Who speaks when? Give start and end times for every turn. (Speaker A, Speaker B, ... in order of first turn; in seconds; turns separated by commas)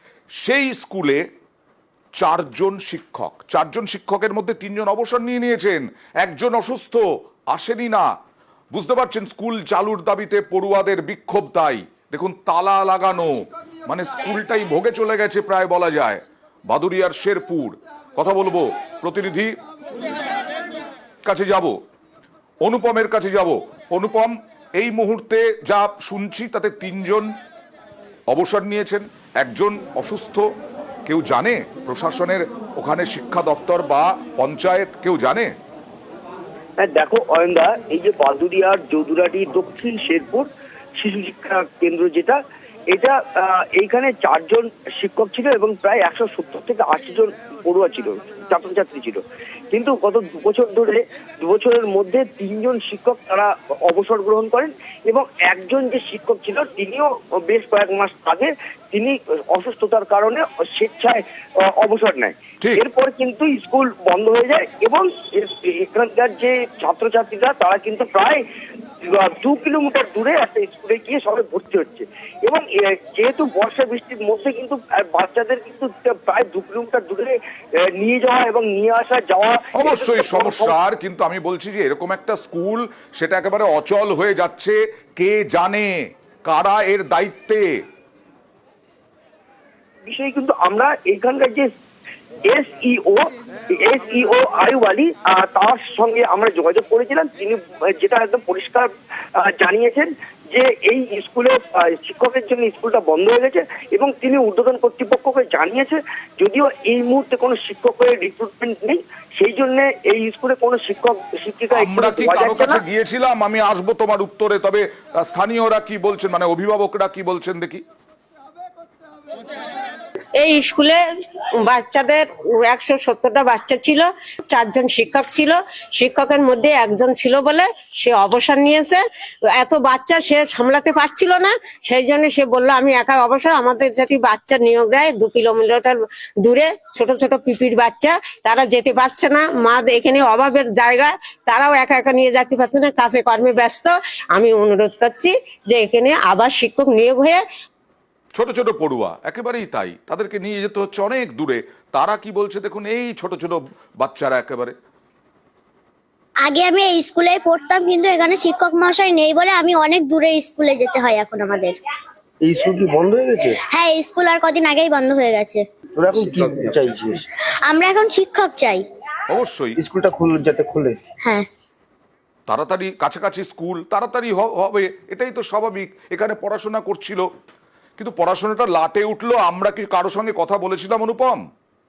Speaker A: 0.4-1.2, Speaker A: 2.2-8.1, Speaker A: 8.7-19.5, Speaker A: 21.2-21.8, Speaker A: 22.6-27.3, Speaker A: 28.3-30.4, Speaker A: 31.1-35.5, Speaker B: 36.8-40.5, Speaker B: 41.0-42.4, Speaker B: 42.9-49.2, Speaker B: 49.7-68.4, Speaker B: 69.1-77.4, Speaker B: 78.0-80.8, Speaker A: 79.8-85.9, Speaker A: 86.5-87.7, Speaker B: 90.1-91.7, Speaker B: 92.5-93.3, Speaker B: 93.8-112.8, Speaker A: 111.7-117.8, Speaker C: 120.4-121.0, Speaker C: 121.6-129.0, Speaker C: 129.5-147.4, Speaker A: 148.3-154.7, Speaker D: 156.4-161.8, Speaker E: 162.4-163.6, Speaker D: 163.7-165.7, Speaker E: 166.0-167.2, Speaker D: 167.7-168.8, Speaker A: 169.3-169.8, Speaker E: 169.8-171.0, Speaker A: 172.5-177.3, Speaker A: 178.0-181.4